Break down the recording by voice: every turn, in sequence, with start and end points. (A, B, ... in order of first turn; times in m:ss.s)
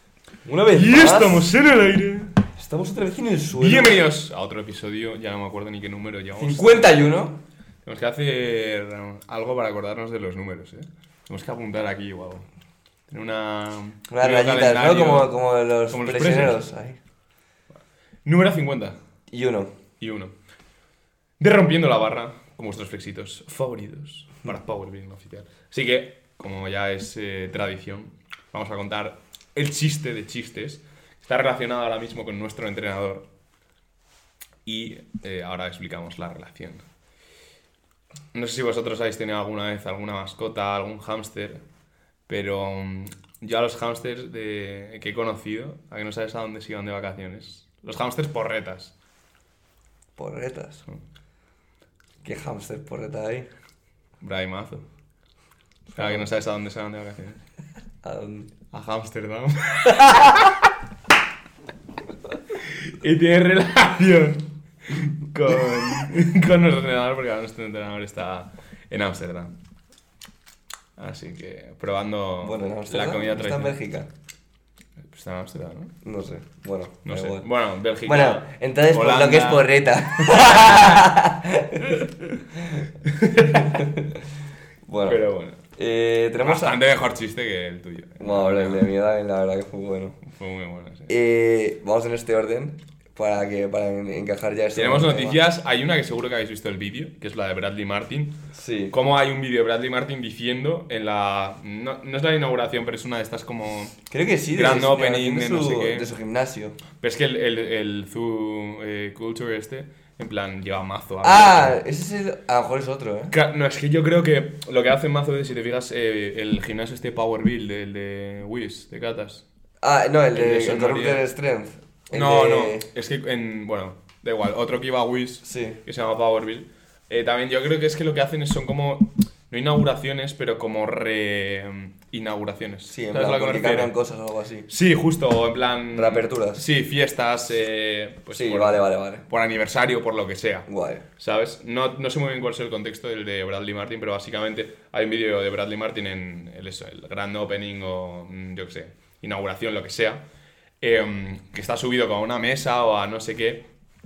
0:00.4-0:01.5 A
0:00.7-0:02.4 B
0:02.6-0:04.0 A
0:03.6-0:07.1 B
0:06.4-0:07.4 A
0:07.8-0:12.4 B
0:13.1-0:15.3 B
0:14.1-0:17.0 A
0:15.9-0:16.6 B
0:18.2-0:19.0 B
0:19.3-0:19.7 A
0:20.0-0:20.3 B
0:21.4-0:33.2 B
0:34.6-0:36.8 B
0:38.3-0:41.6 B
0:42.3-0:48.9 B
0:50.2-0:50.9 A
0:52.2-0:53.5 A
0:54.2-0:54.8 B
0:55.9-0:56.3 A
0:56.0-0:57.4 B
0:58.0-0:58.5 A
0:58.7-1:00.7 B
1:02.5-1:09.5 B
1:11.0-1:13.8 B
1:12.4-1:14.1 A
1:15.0-1:15.9 B
1:16.0-1:17.4 A
1:17.0-1:21.0 B
1:18.0-1:22.1 A
1:21.9-1:22.4 B
1:22.6-1:22.9 A
1:23.0-1:23.9 B
1:23.4-1:24.2 A
1:24.9-1:25.2 A
1:25.0-1:25.6 B
1:25.8-1:26.8 A
1:26.4-1:28.8 B
1:28.2-1:30.2 A
1:30.2-1:31.1 B
1:31.1-1:35.4 A
1:34.7-1:38.4 B
1:38.5-1:38.9 A
1:38.9-1:43.9 B
1:44.1-1:46.8 A
1:44.5-1:46.1 B
1:47.0-1:51.8 B
1:51.2-1:53.3 A
1:53.3-1:59.4 B
1:59.8-2:02.9 A
2:00.3-2:01.2 B
2:02.1-2:13.9 B
2:05.4-2:05.8 A
2:12.9-2:14.7 A
2:14.7-2:20.7 B
2:15.9-2:16.6 A
2:18.3-2:19.2 A
2:20.7-2:21.0 A
2:21.2-2:30.2 B
2:30.8-2:33.6 B